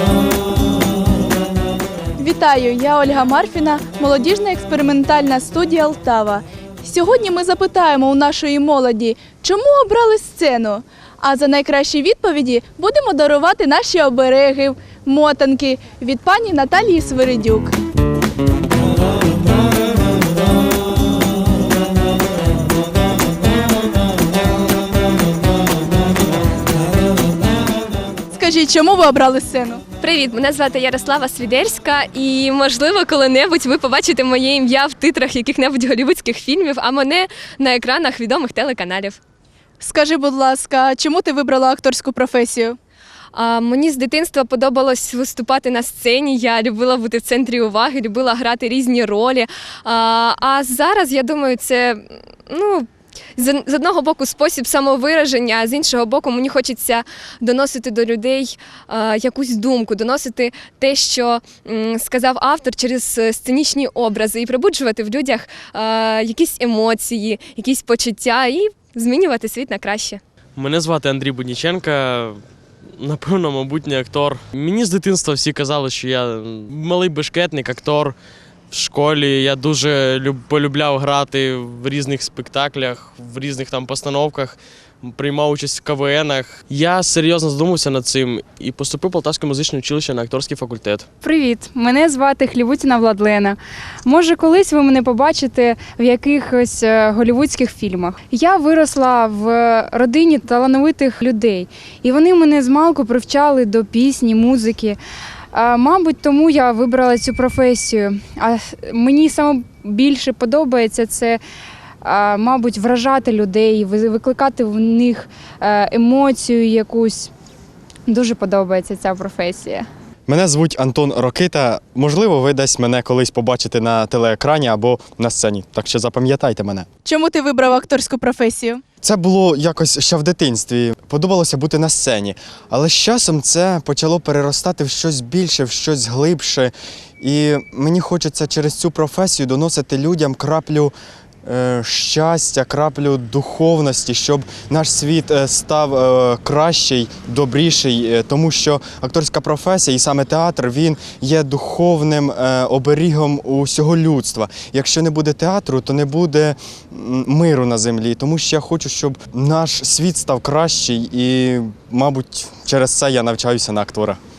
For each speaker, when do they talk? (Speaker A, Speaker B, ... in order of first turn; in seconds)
Speaker A: 2.2-17.7, 28.3-29.8, 39.8-42.8, 127.1-128.8
Speaker B: 30.0-39.2, 43.3-52.9, 53.4-70.2
Speaker C: 70.6-72.4, 73.0-78.2, 78.7-91.1
Speaker D: 91.2-105.0, 105.5-111.4, 112.0-117.3, 118.1-119.9
Speaker E: 120.3-126.9, 129.0-140.9, 141.5-164.2